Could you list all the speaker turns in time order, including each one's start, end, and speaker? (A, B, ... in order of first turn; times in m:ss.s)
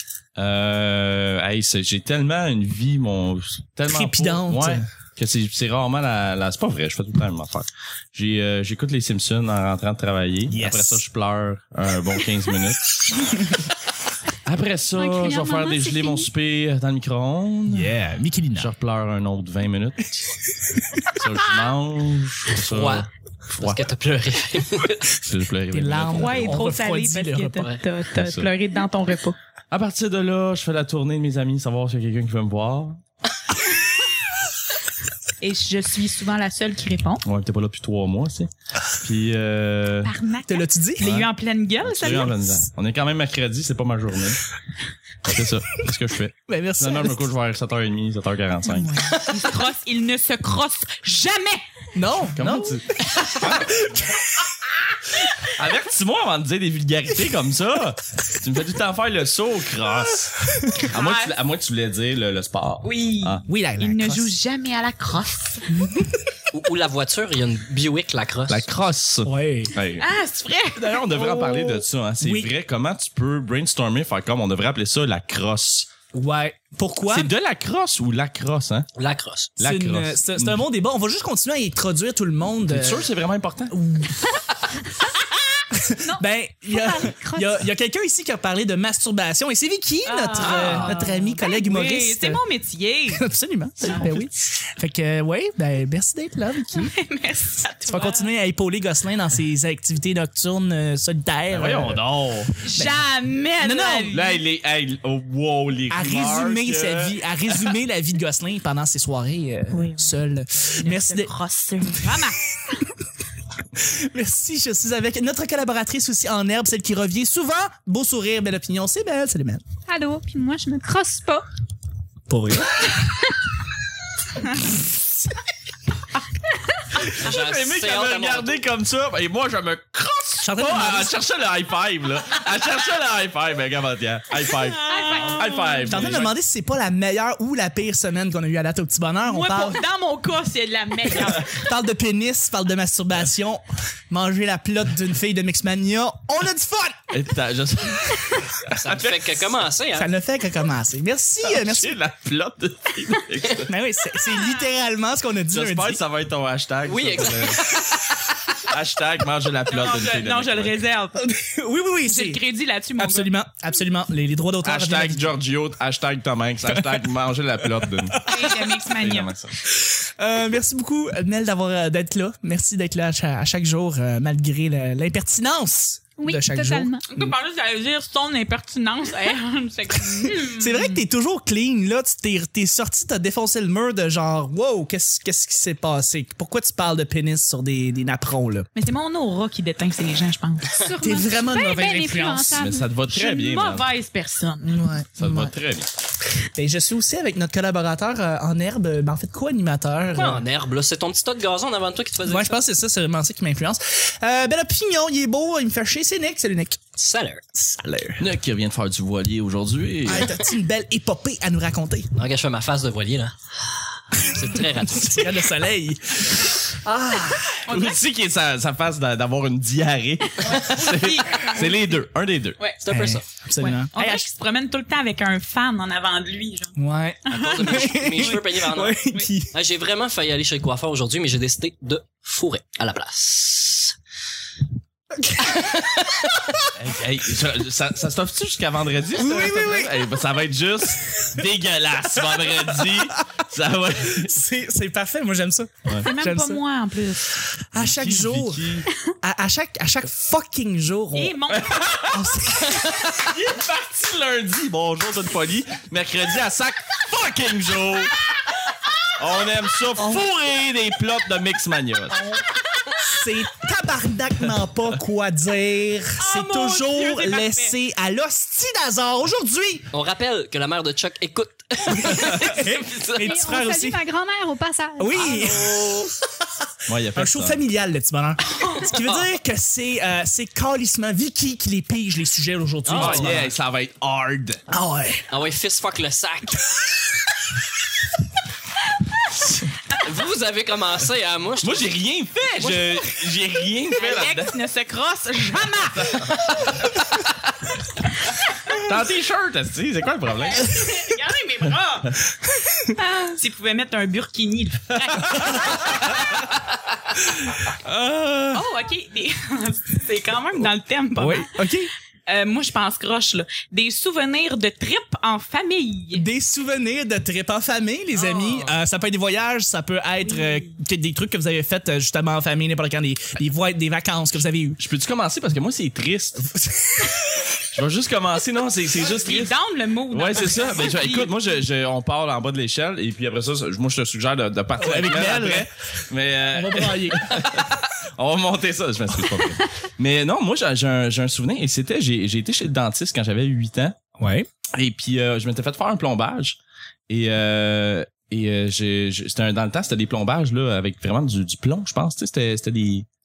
0:00.4-0:13.0 A
0:03.9-0:04.9 B
0:10.5-0:11.0 B
0:14.4-0:17.9 A
0:15.0-0:16.3 C
0:17.7-0:18.7 B
0:18.6-0:20.3 A
0:21.0-0:23.9 A
0:22.5-0:25.0 D
0:25.1-0:26.6 A
0:25.7-0:27.7 B
0:26.1-0:29.4 E
0:28.1-0:28.5 A
0:29.7-0:33.0 A
0:35.4-0:37.2 E
0:37.2-0:40.1 A
0:40.0-0:42.4 E
0:40.5-0:41.2 B
0:41.0-0:41.3 A
0:41.8-0:44.4 A
0:45.2-0:48.9 A
0:46.5-0:47.3 B
0:48.7-0:51.6 E
0:52.0-0:52.8 B
0:52.4-0:53.9 A
0:53.4-0:54.2 B
0:55.5-1:03.4 A
1:00.4-1:00.9 B
1:00.9-1:01.4 E
1:02.8-1:05.7 E
1:03.5-1:04.3 B
1:05.7-1:06.2 B
1:06.5-1:08.6 D
1:08.5-1:10.1 A
1:09.2-1:09.8 B
1:10.0-1:11.6 E
1:10.8-1:15.9 A
1:11.1-1:12.5 B
1:16.1-1:17.3 B
1:17.1-1:18.9 A
1:19.0-1:19.5 D
1:19.6-1:20.6 A
1:19.6-1:23.1 B
1:22.7-1:23.7 A
1:23.7-1:24.4 B
1:25.7-1:32.4 B
1:26.8-1:27.5 C
1:26.8-1:27.1 E
1:30.1-1:33.3 E
1:30.4-1:30.9 D
1:33.1-1:36.9 B
1:33.8-1:34.1 E
1:36.7-1:38.3 E
1:37.9-1:42.0 B
1:41.5-1:42.6 A
1:42.6-1:44.4 E
1:42.7-1:43.0 B
1:43.6-1:44.1 B
1:44.1-1:47.1 A
1:45.9-1:51.3 B
1:49.7-1:50.1 E
1:50.8-1:52.4 E
1:53.8-1:59.6 B
1:59.9-2:01.4 C
2:02.3-2:02.9 B
2:07.0-2:16.3 A
2:07.1-2:08.6 D
2:10.4-2:11.1 B
2:14.5-2:16.2 E
2:14.9-2:15.8 C
2:15.9-2:19.8 B
2:19.3-2:21.6 E
2:21.1-2:27.1 B
2:27.1-2:29.6 A
2:28.7-2:30.1 D
2:30.0-2:32.0 B
2:31.5-2:33.7 A
2:33.7-2:36.0 B
2:34.3-2:34.6 E
2:35.5-2:37.9 A
2:36.8-2:37.7 D
2:38.6-2:40.7 A
2:39.7-2:41.2 E
2:41.2-2:42.4 B
2:42.1-2:43.3 E
2:43.0-2:45.3 B
2:44.6-2:48.2 A
2:46.7-2:47.1 B
2:47.7-2:48.7 B
2:48.3-2:49.3 E
2:48.9-2:49.6 A
2:49.7-2:57.4 B
2:56.2-2:57.1 C
2:57.1-3:01.0 E
3:00.2-3:08.7 B
3:08.8-3:10.7 E
3:10.7-3:12.9 C
3:11.0-3:12.7 B
3:12.6-3:13.9 A
3:13.1-3:14.7 E
3:14.6-3:15.5 B
3:15.2-3:15.9 A
3:16.6-3:20.4 B
3:20.1-3:22.5 D
3:22.2-3:26.8 B
3:27.0-3:27.4 D
3:27.5-3:28.2 B
3:28.2-3:30.3 A
3:30.0-3:32.1 B
3:32.2-3:33.4 D
3:34.1-3:35.4 D
3:34.6-3:37.6 B
3:37.7-3:38.0 E
3:37.7-3:42.6 A
3:40.4-3:41.9 E
3:42.8-3:43.2 D
3:42.9-3:44.3 B
3:43.6-3:46.7 E
3:46.8-3:49.5 B
3:47.3-3:49.0 D
3:47.3-3:48.4 E
3:49.5-3:54.0 D
3:55.3-3:56.6 D
3:56.7-4:04.3 A
3:59.1-4:00.0 B
4:02.2-4:03.2 B
4:04.0-4:06.6 B
4:06.0-4:07.4 E
4:07.7-4:11.4 B
4:07.8-4:08.9 A
4:11.1-4:12.0 E
4:11.5-4:18.1 A
4:12.1-4:13.1 B
4:19.2-4:22.2 A
4:20.0-4:20.3 B
4:23.0-4:29.9 B
4:26.2-4:27.8 E
4:29.9-4:33.3 D
4:31.9-4:34.0 B
4:33.2-4:35.3 C
4:35.0-4:36.0 B
4:35.1-4:36.2 D
4:36.9-4:37.6 A
4:37.2-4:43.6 B
4:38.6-4:39.2 D
4:42.8-4:43.4 D
4:43.0-4:44.6 A
4:44.7-4:45.2 B
4:45.3-4:46.6 D
4:50.0-4:51.9 D
4:51.6-4:54.5 A
4:54.0-4:56.3 E
4:55.9-4:57.3 A
4:58.7-5:00.9 A
5:00.5-5:02.1 E
5:02.9-5:06.2 E
5:05.0-5:06.4 A
5:07.7-5:08.6 A
5:08.5-5:11.5 E
5:11.2-5:11.9 B
5:12.3-5:16.3 E
5:16.1-5:24.8 B
5:18.2-5:18.8 D
5:20.2-5:20.7 E
5:24.8-5:26.5 A
5:26.6-5:27.1 B
5:27.7-5:29.6 A
5:29.0-5:31.3 E
5:30.1-5:44.0 A
5:34.8-5:35.7 B
5:36.5-5:37.6 B
5:44.2-5:44.5 B
5:44.7-5:46.6 A
5:47.1-5:53.1 A